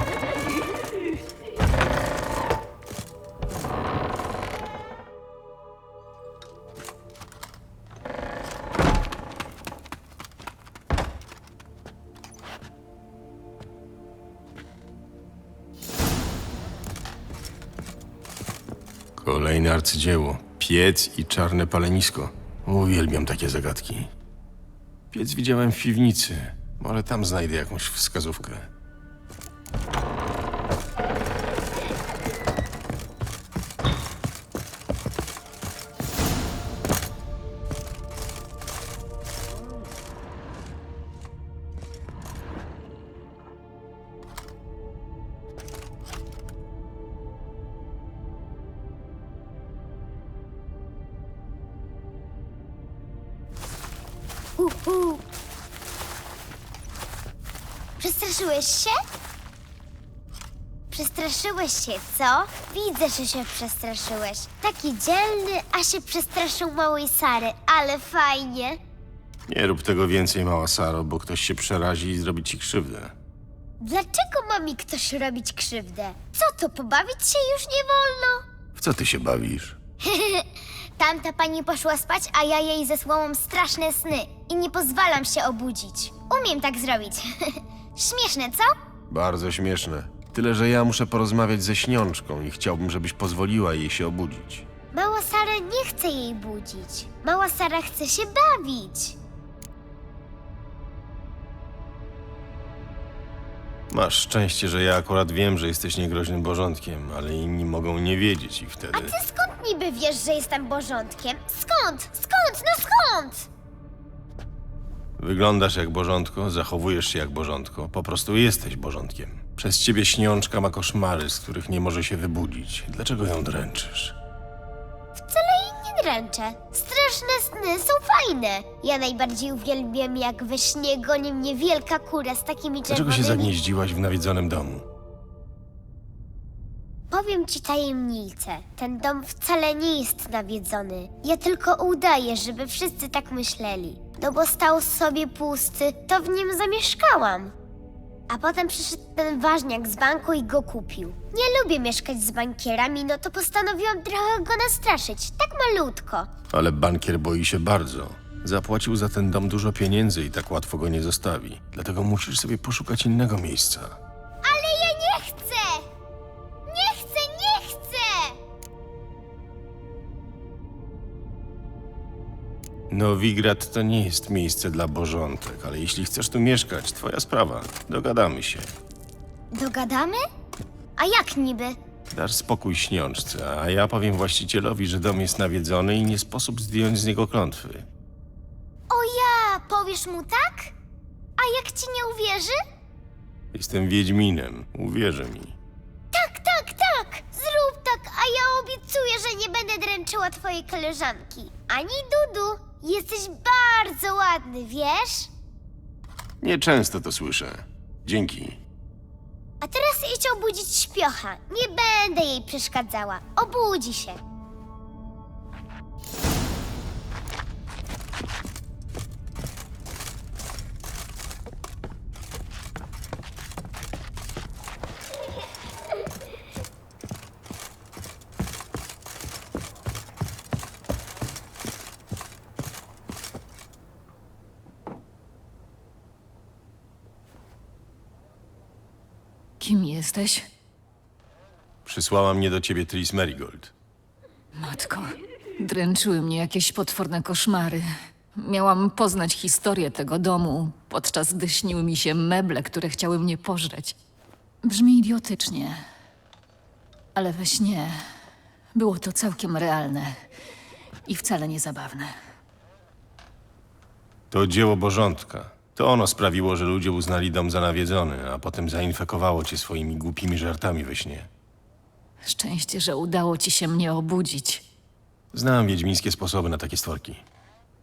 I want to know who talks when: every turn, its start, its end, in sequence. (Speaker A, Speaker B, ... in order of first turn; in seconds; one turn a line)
Speaker A: 19.2-24.1
Speaker A: 25.1-28.7
Speaker B: 54.6-55.2
Speaker B: 58.0-59.0
Speaker B: 60.9-68.8
Speaker A: 69.5-73.1
Speaker B: 73.8-78.4
Speaker A: 78.7-79.8
Speaker B: 80.0-88.8
Speaker A: 89.1-94.7
Speaker B: 94.9-99.2
Speaker A: 103.9-109.2
Speaker B: 108.9-113.5
Speaker A: 115.2-124.2
Speaker B: 125.2-133.5
Speaker A: 132.9-134.8
Speaker B: 137.1-147.5
Speaker B: 148.3-156.3
Speaker A: 156.5-164.0
Speaker B: 164.4-165.9
Speaker B: 166.7-168.4
Speaker A: 172.9-178.7
Speaker B: 179.5-180.2
Speaker B: 180.9-181.8
Speaker A: 182.1-187.9
Speaker B: 188.9-190.7
Speaker B: 191.4-192.6
Speaker A: 193.5-195.6
Speaker B: 196.1-205.3
Speaker A: 206.4-208.6
Speaker B: 209.6-214.2
Speaker C: 239.6-240.5
Speaker A: 241.8-243.7
Speaker C: 244.6-254.0
Speaker C: 254.6-255.8
Speaker C: 257.1-258.0
Speaker C: 258.7-260.2
Speaker C: 261.1-262.1
Speaker A: 264.3-271.3
Speaker C: 272.2-274.6
Speaker A: 275.3-277.2